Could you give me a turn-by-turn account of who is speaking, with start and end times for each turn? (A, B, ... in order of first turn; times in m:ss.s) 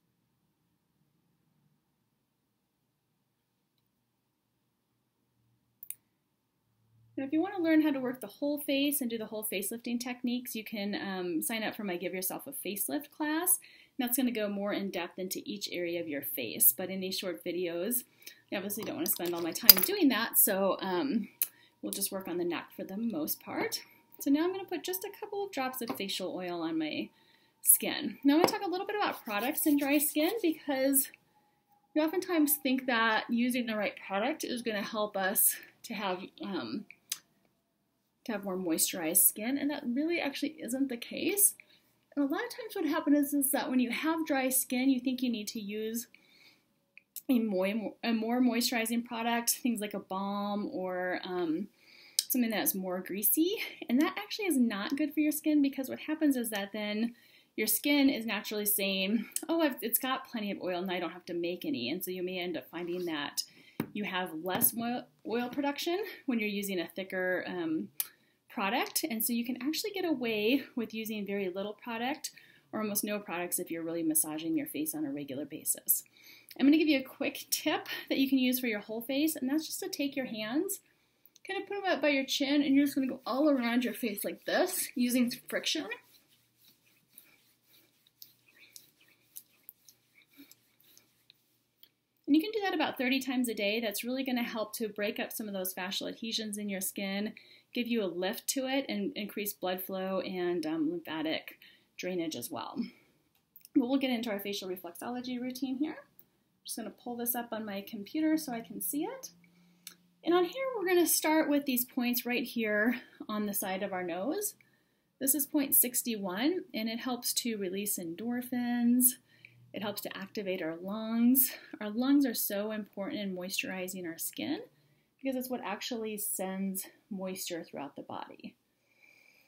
0:07.2-0:31.1 A
0:31.9-0:36.9 A
0:38.2-0:41.6 A
0:42.1-0:46.1 A
0:47.3-0:51.7 A
0:52.3-1:07.9 A
1:08.5-1:16.0 A
1:16.6-1:20.8 A
1:21.4-1:25.9 A
1:32.2-1:42.9 A
1:43.7-1:46.0 A
1:46.6-1:49.3 A
1:50.2-1:54.6 A
1:55.2-1:59.2 A
1:59.7-2:04.6 A
2:05.2-2:08.6 A